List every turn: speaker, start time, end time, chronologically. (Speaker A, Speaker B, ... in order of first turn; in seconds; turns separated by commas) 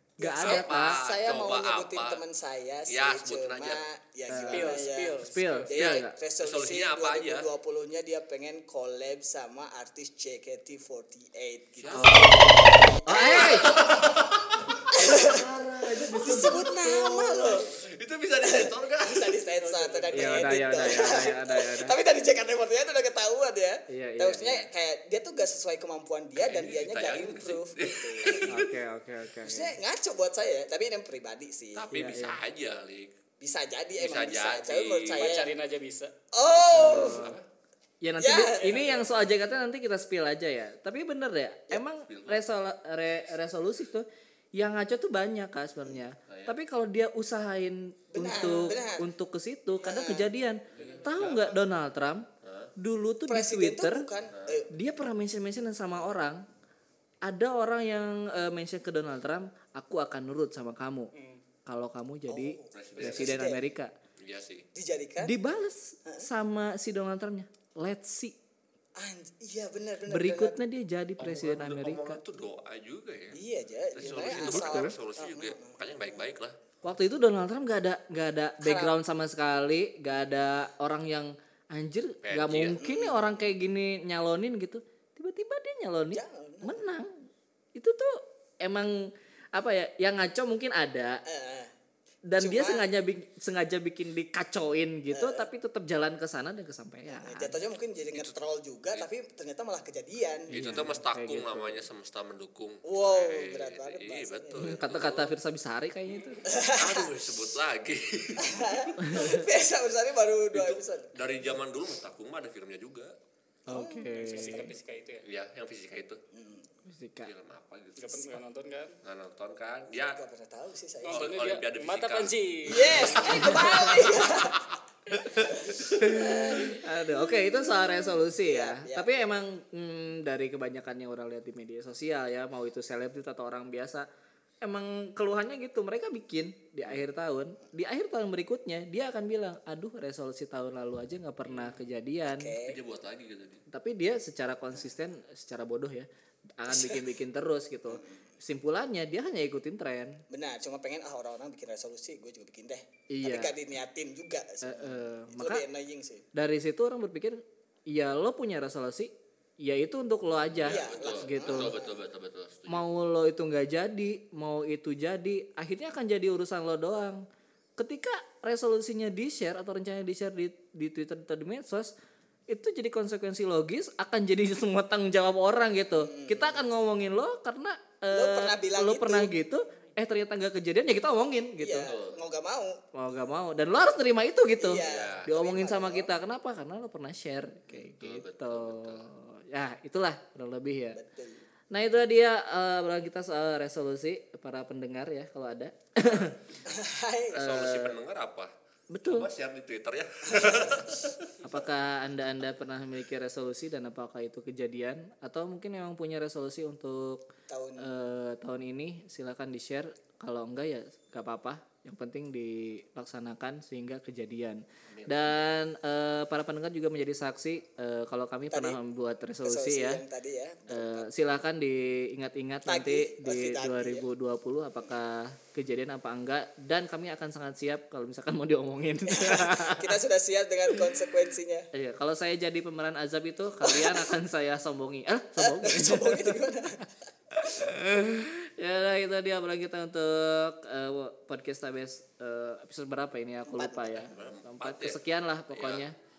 Speaker A: 0.2-12.3, Speaker B: 0.2-1.0, Speaker C: 0.4-2.2, Speaker C: 2.9-3.8, Speaker B: 4.3-6.2, Speaker D: 4.4-5.7, Speaker C: 5.7-7.5, Speaker C: 11.8-14.9, Speaker B: 11.9-13.7, Speaker A: 13.0-13.8, Speaker A: 14.9-15.4, Speaker B: 14.9-17.6, Speaker A: 16.1-17.6, Speaker C: 17.7-19.5, Speaker A: 18.4-28.6, Speaker D: 19.6-20.4, Speaker B: 20.1-22.0, Speaker B: 23.9-24.7, Speaker C: 26.4-28.7, Speaker B: 28.5-29.8, Speaker A: 29.4-31.9, Speaker C: 31.7-33.1, Speaker B: 31.9-32.4, Speaker A: 33.4-35.5, Speaker C: 34.0-35.2, Speaker D: 35.1-36.1, Speaker A: 36.3-37.3, Speaker C: 36.6-37.5, Speaker B: 36.7-37.3, Speaker B: 38.0-52.3, Speaker A: 38.2-39.2, Speaker C: 42.1-42.5, Speaker C: 46.2-46.6, Speaker A: 48.1-49.0, Speaker A: 49.8-50.3, Speaker C: 50.7-51.6, Speaker C: 52.4-52.7, Speaker B: 52.8-54.1, Speaker A: 53.3-54.7, Speaker C: 54.3-54.6, Speaker B: 54.7-56.5, Speaker B: 57.2-61.1, Speaker D: 61.1-61.4, Speaker B: 61.7-63.9, Speaker A: 62.3-63.6, Speaker C: 62.7-63.5, Speaker C: 64.2-64.7, Speaker A: 64.7-65.4, Speaker B: 65.2-68.3, Speaker A: 69.0-70.6, Speaker B: 70.1-72.2, Speaker C: 71.2-73.4, Speaker A: 73.3-75.9, Speaker C: 73.9-76.6, Speaker B: 74.1-74.9, Speaker B: 76.8-87.2, Speaker A: 78.6-79.0, Speaker C: 82.2-82.8, Speaker A: 82.7-83.5, Speaker A: 86.1-86.8, Speaker B: 87.8-91.2, Speaker A: 91.3-91.7, Speaker B: 92.3-97.6, Speaker A: 92.4-92.9, Speaker A: 95.1-95.5, Speaker A: 97.1-100.9, Speaker B: 100.5-101.9, Speaker C: 100.5-105.4, Speaker A: 102.9-104.8, Speaker B: 104.6-106.4, Speaker A: 106.5-107.1, Speaker C: 106.7-108.9, Speaker A: 108.4-111.1, Speaker B: 109.0-109.4, Speaker C: 110.5-113.2, Speaker B: 113.7-114.7, Speaker A: 113.7-114.8, Speaker D: 114.2-115.2, Speaker C: 115.2-116.2, Speaker A: 116.3-116.7, Speaker B: 116.9-117.3, Speaker C: 117.2-118.4, Speaker D: 118.0-119.0, Speaker C: 119.0-120.2, Speaker A: 119.9-121.3, Speaker D: 121.0-123.4, Speaker C: 121.1-126.2, Speaker A: 122.7-124.6, Speaker A: 125.4-129.1, Speaker B: 125.9-134.1, Speaker B: 134.6-142.6, Speaker A: 142.2-142.8, Speaker C: 142.6-143.6, Speaker B: 143.7-150.2, Speaker A: 146.7-147.1, Speaker A: 147.9-148.2, Speaker A: 150.3-156.3, Speaker B: 153.1-153.5, Speaker B: 154.6-155.6, Speaker B: 156.3-161.8, Speaker C: 160.6-162.9, Speaker A: 160.6-162.0, Speaker B: 162.7-167.2, Speaker B: 167.8-171.9, Speaker B: 172.5-181.9, Speaker A: 175.9-176.6, Speaker A: 178.1-179.3, Speaker A: 181.6-182.8, Speaker C: 181.8-182.2, Speaker B: 182.9-191.0, Speaker A: 184.6-186.1, Speaker C: 184.8-185.3, Speaker C: 187.7-189.1, Speaker A: 190.9-191.4, Speaker B: 191.7-196.4, Speaker A: 196.7-197.5, Speaker C: 197.3-198.5, Speaker B: 197.4-198.0, Speaker B: 198.9-199.3, Speaker C: 199.0-201.3, Speaker A: 200.3-201.0, Speaker B: 201.4-207.3, Speaker A: 207.5-207.9, Speaker B: 207.8-220.0, Speaker C: 214.9-215.5, Speaker A: 218.5-218.8, Speaker A: 219.4-221.1, Speaker B: 220.7-230.0, Speaker A: 222.7-224.1, Speaker A: 229.1-231.7, Speaker B: 231.7-236.7, Speaker A: 233.6-234.1, Speaker A: 235.4-236.8, Speaker B: 237.3-245.9, Speaker A: 243.4-244.1, Speaker C: 244.0-245.8